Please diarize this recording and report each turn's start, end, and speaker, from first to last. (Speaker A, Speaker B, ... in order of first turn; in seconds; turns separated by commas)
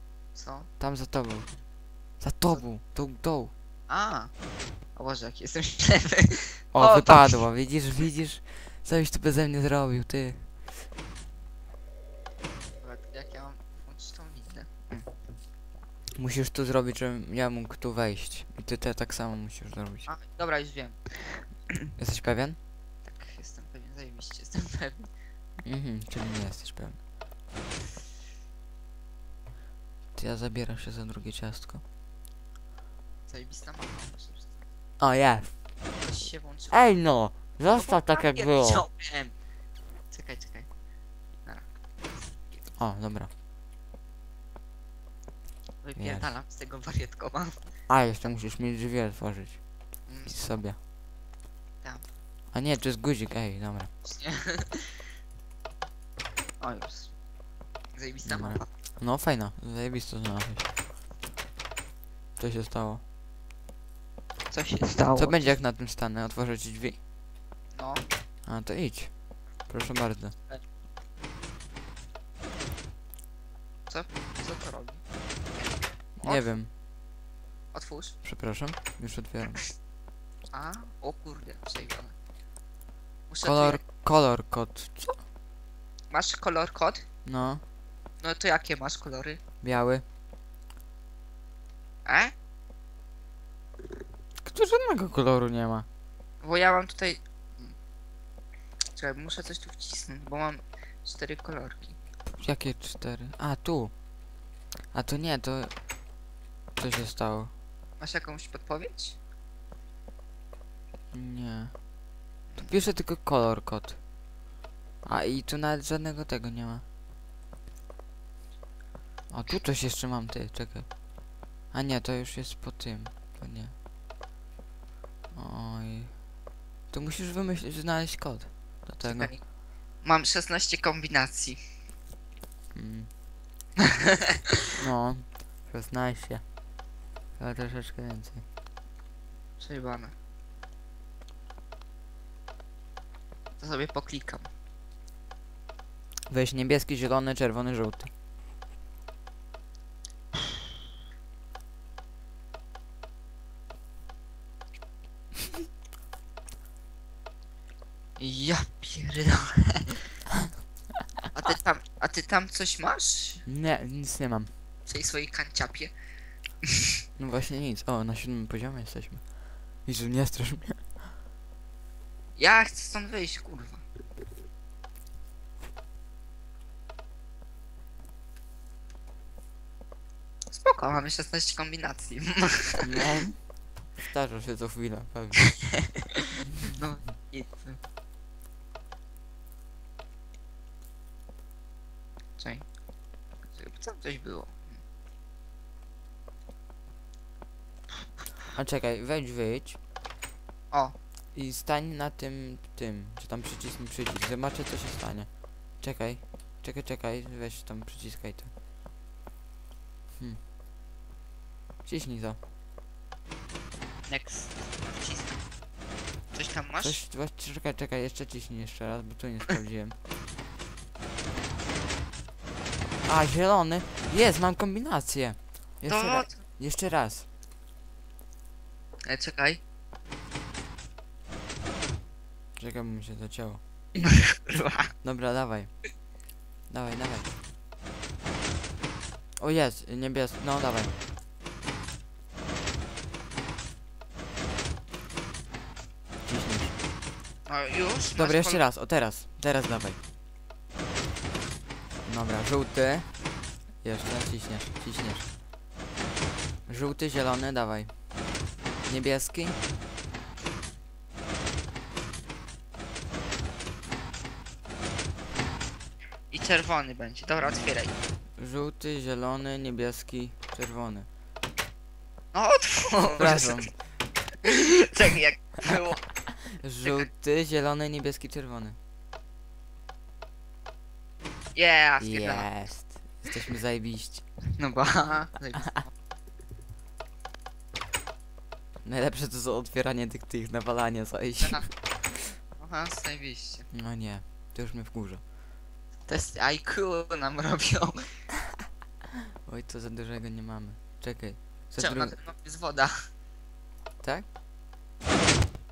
Speaker A: 0.3-0.7, Speaker B: 0.8-1.5, Speaker B: 2.2-3.5, Speaker A: 3.9-4.3, Speaker A: 5.0-7.4, Speaker B: 6.7-10.7, Speaker A: 12.7-15.1, Speaker B: 16.2-20.1, Speaker A: 20.1-21.4, Speaker B: 22.0-22.6, Speaker A: 23.1-25.1, Speaker B: 25.6-27.0, Speaker B: 30.1-31.8, Speaker A: 33.3-34.6, Speaker B: 35.0-35.5, Speaker A: 36.0-36.8, Speaker B: 36.7-38.9, Speaker A: 37.8-39.3, Speaker A: 40.1-40.7, Speaker A: 41.5-42.7, Speaker B: 42.8-43.3, Speaker A: 45.8-47.6, Speaker B: 46.0-46.3, Speaker B: 47.9-49.6, Speaker A: 50.1-50.6, Speaker B: 50.2-50.8, Speaker B: 52.5-53.9, Speaker A: 54.0-55.0, Speaker A: 56.6-57.1, Speaker A: 58.0-58.7, Speaker B: 58.2-60.7, Speaker B: 62.4-63.0, Speaker A: 64.5-65.5, Speaker B: 65.2-67.0, Speaker A: 67.7-68.0, Speaker B: 68.5-69.1, Speaker B: 69.7-70.3, Speaker A: 73.9-75.0, Speaker A: 75.5-76.5, Speaker B: 76.2-76.7, Speaker A: 77.7-78.2, Speaker B: 78.2-79.6, Speaker A: 80.5-82.1, Speaker A: 83.3-83.8, Speaker B: 83.4-85.2, Speaker A: 86.1-87.1, Speaker B: 87.3-87.6, Speaker A: 88.2-89.4, Speaker B: 89.6-90.0, Speaker A: 92.0-92.3, Speaker B: 94.4-95.9, Speaker A: 96.4-97.8, Speaker A: 99.0-102.0, Speaker B: 102.3-103.9, Speaker B: 104.9-105.7, Speaker B: 106.8-107.5, Speaker A: 108.0-109.2, Speaker B: 111.1-111.8, Speaker B: 112.6-114.0, Speaker B: 115.0-116.8, Speaker B: 119.3-120.9, Speaker B: 121.7-123.8, Speaker B: 125.3-126.2, Speaker B: 126.9-129.3, Speaker A: 129.0-129.4, Speaker A: 130.0-131.6, Speaker B: 132.7-133.1, Speaker B: 134.8-136.4, Speaker B: 137.4-138.4, Speaker A: 139.6-140.1, Speaker A: 143.6-144.5, Speaker B: 146.3-148.1, Speaker A: 158.2-160.0, Speaker A: 161.3-163.4, Speaker B: 163.5-164.5, Speaker A: 164.9-165.9, Speaker B: 167.2-169.2, Speaker B: 169.8-171.1, Speaker A: 172.4-173.8, Speaker A: 180.5-183.1, Speaker B: 182.8-183.4, Speaker B: 184.0-185.5, Speaker A: 186.0-187.8, Speaker A: 192.4-192.7, Speaker A: 193.5-194.8, Speaker B: 198.5-199.8, Speaker B: 201.3-208.5, Speaker B: 211.8-212.4, Speaker A: 214.1-215.4, Speaker A: 216.3-217.0, Speaker B: 216.8-220.0, Speaker B: 223.1-227.3, Speaker A: 225.9-226.4, Speaker A: 229.1-229.6, Speaker B: 232.6-233.6, Speaker A: 234.0-234.9, Speaker B: 235.0-235.7, Speaker B: 236.7-237.3, Speaker B: 239.4-241.0, Speaker B: 246.3-246.8, Speaker A: 247.5-248.6, Speaker B: 248.2-250.0, Speaker B: 252.0-253.1, Speaker B: 253.8-255.3, Speaker B: 256.7-257.9, Speaker B: 258.9-259.6, Speaker A: 266.3-267.9, Speaker B: 267.4-267.8, Speaker B: 268.4-271.1, Speaker A: 272.3-273.7, Speaker B: 273.2-273.7, Speaker A: 274.4-276.1, Speaker B: 276.5-278.8, Speaker A: 281.6-282.5, Speaker B: 282.0-284.2, Speaker A: 284.6-285.9, Speaker B: 288.8-292.4, Speaker A: 292.6-293.7, Speaker B: 293.7-295.2, Speaker A: 296.1-298.2, Speaker B: 299.4-302.2, Speaker A: 301.8-303.0